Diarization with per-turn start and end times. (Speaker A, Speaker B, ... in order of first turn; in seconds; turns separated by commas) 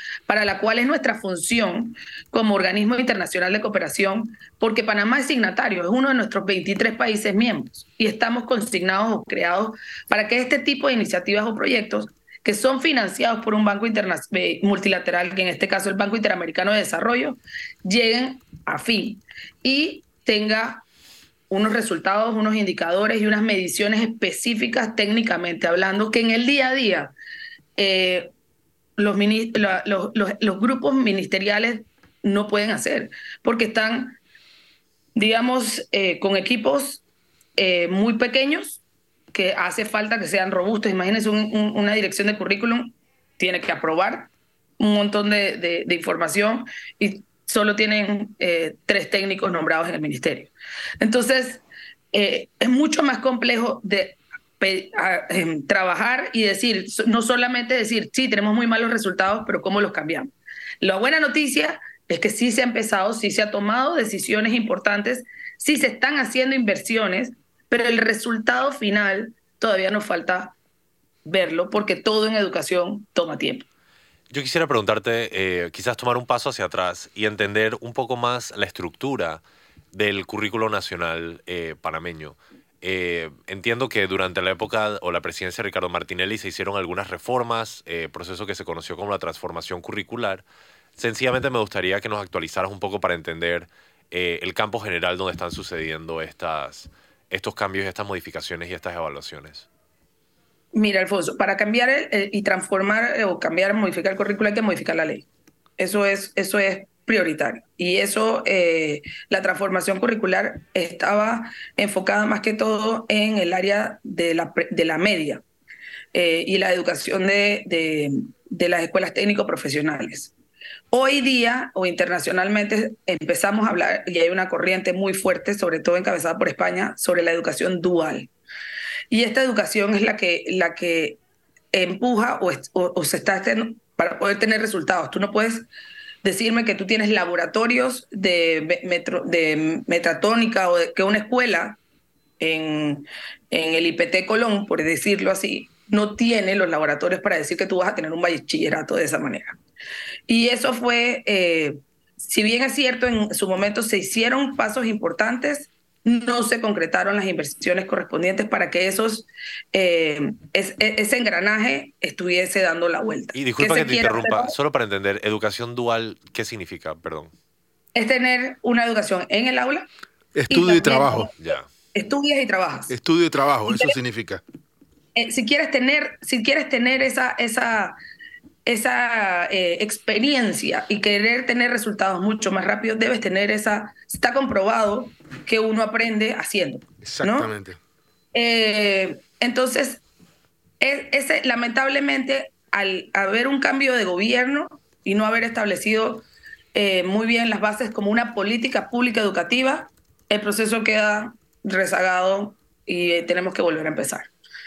Speaker A: 0.3-20.8, Speaker A: 21.5-27.1, Speaker A: 27.8-28.3, Speaker A: 29.0-34.2, Speaker A: 35.1-37.0, Speaker A: 37.6-38.8, Speaker A: 39.3-60.3, Speaker A: 60.8-70.5, Speaker A: 71.2-73.6, Speaker B: 74.3-90.4, Speaker B: 91.0-99.7, Speaker A: 100.7-105.2, Speaker A: 105.8-115.4, Speaker A: 116.1-120.3, Speaker A: 120.9-128.3, Speaker A: 129.1-131.2, Speaker A: 131.7-135.7, Speaker A: 136.2-141.8, Speaker A: 142.4-149.6, Speaker A: 150.3-164.5, Speaker B: 163.3-167.3, Speaker A: 167.9-169.9, Speaker C: 170.3-171.3, Speaker A: 170.5-171.3, Speaker A: 171.9-172.9, Speaker C: 172.9-174.4, Speaker A: 173.7-173.9, Speaker A: 175.2-177.9, Speaker A: 178.7-187.5, Speaker C: 187.0-187.8, Speaker A: 188.3-190.0, Speaker A: 190.8-204.3